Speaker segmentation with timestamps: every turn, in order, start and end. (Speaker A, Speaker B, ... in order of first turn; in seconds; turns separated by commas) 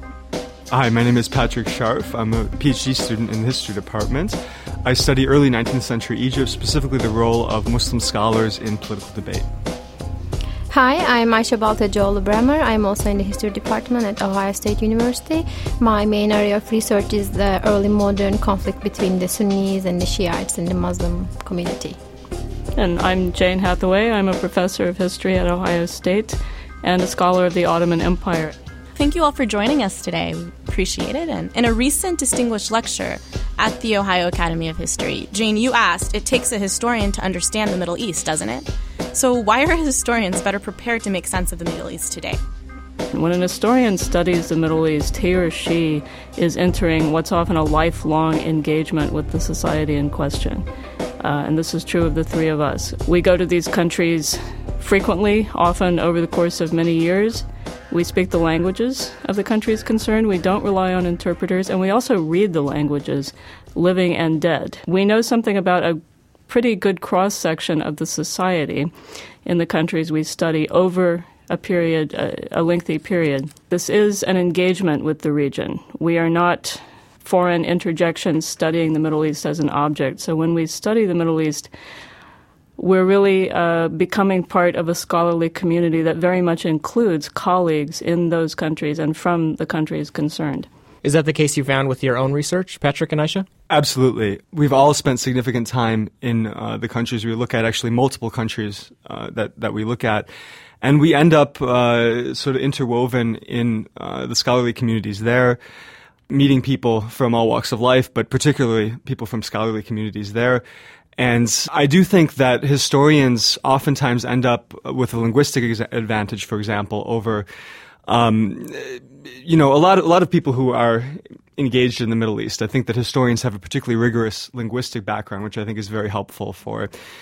Speaker A: 0.7-9.5, Speaker B: 10.7-22.0, Speaker C: 22.8-28.5, Speaker D: 28.9-42.4, Speaker C: 43.1-50.6, Speaker C: 51.2-68.9, Speaker C: 69.4-81.7, Speaker C: 82.8-90.7, Speaker E: 91.0-93.5, Speaker A: 93.7-100.3, Speaker A: 100.8-105.6, Speaker A: 106.3-110.6, Speaker A: 111.2-117.5, Speaker A: 118.1-126.9